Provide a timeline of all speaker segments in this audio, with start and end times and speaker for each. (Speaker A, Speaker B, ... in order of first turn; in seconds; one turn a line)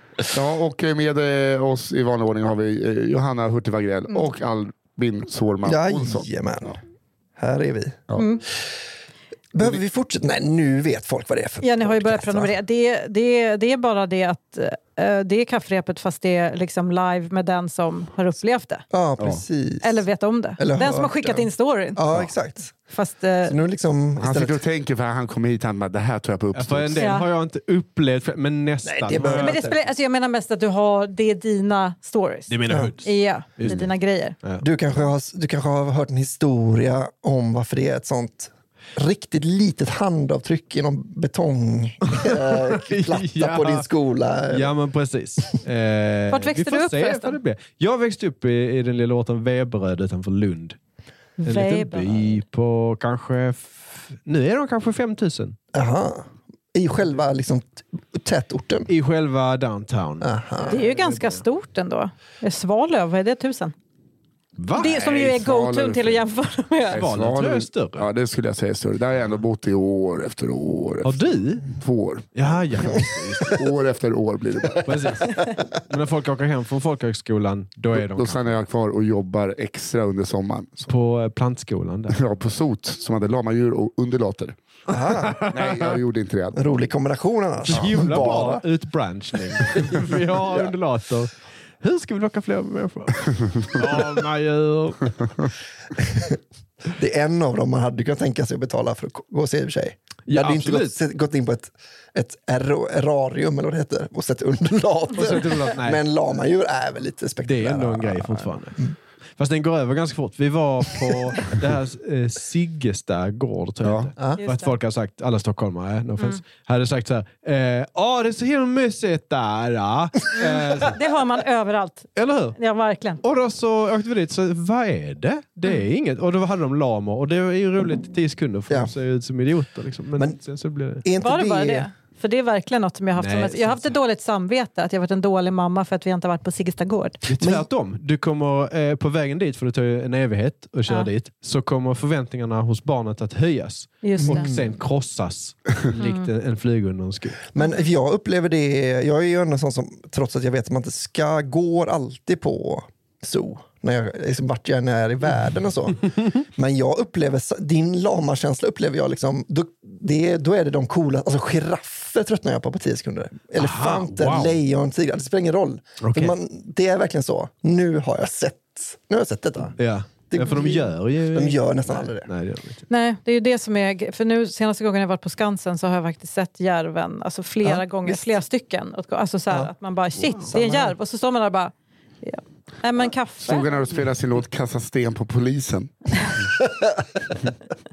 Speaker A: 0.3-6.7
Speaker B: 5.6-6.8
Speaker B: 7.4-8.1
Speaker C: 8.2-8.4
Speaker B: 9.5-12.6
Speaker C: 11.6-18.9
Speaker B: 18.9-20.0
Speaker A: 19.2-19.4
Speaker C: 19.8-22.0
Speaker B: 20.6-22.7
Speaker C: 22.9-23.6
Speaker B: 23.4-24.6
Speaker A: 24.2-27.1
Speaker D: 26.5-29.8
Speaker C: 26.9-27.3
Speaker B: 28.8-29.7
Speaker C: 29.2-34.4
Speaker D: 32.5-33.9
Speaker B: 32.7-32.9
Speaker B: 34.6-44.7
Speaker D: 42.0-43.9
Speaker D: 44.5-50.8
Speaker C: 46.3-47.4
Speaker C: 51.4-52.4
Speaker D: 51.4-55.5
Speaker B: 55.7-58.9
Speaker D: 58.9-61.4
Speaker B: 60.2-60.8
Speaker C: 60.7-63.7
Speaker D: 64.6-65.0
Speaker C: 64.7-67.0
Speaker A: 64.9-66.2
Speaker A: 66.9-72.4
Speaker D: 66.9-68.0
Speaker D: 71.0-71.7
Speaker D: 72.3-73.6
Speaker A: 73.5-75.1
Speaker D: 74.8-78.6
Speaker A: 77.9-80.9
Speaker D: 80.8-82.2
Speaker A: 82.1-84.5
Speaker B: 84.9-85.4
Speaker D: 85.2-85.7
Speaker A: 85.5-86.6
Speaker B: 86.5-88.6
Speaker D: 87.7-95.3
Speaker B: 96.9-108.9
Speaker D: 100.3-100.9
Speaker D: 105.1-106.1
Speaker D: 107.4-108.8
Speaker D: 109.4-121.0
Speaker A: 113.8-114.1
Speaker C: 114.4-114.7
Speaker C: 120.4-123.2
Speaker D: 122.1-122.6
Speaker D: 123.2-131.0
Speaker B: 130.9-131.9
Speaker C: 131.2-137.2
Speaker D: 133.2-134.0
Speaker D: 137.2-147.4
Speaker B: 137.4-137.7
Speaker C: 144.0-144.5
Speaker B: 144.2-144.7
Speaker C: 145.9-146.3
Speaker B: 147.5-169.8
Speaker D: 163.5-164.6
Speaker D: 166.0-166.3
Speaker D: 169.8-172.8
Speaker B: 170.3-172.3
Speaker C: 172.9-184.0
Speaker B: 177.6-178.2
Speaker B: 180.4-180.9
Speaker A: 183.4-186.1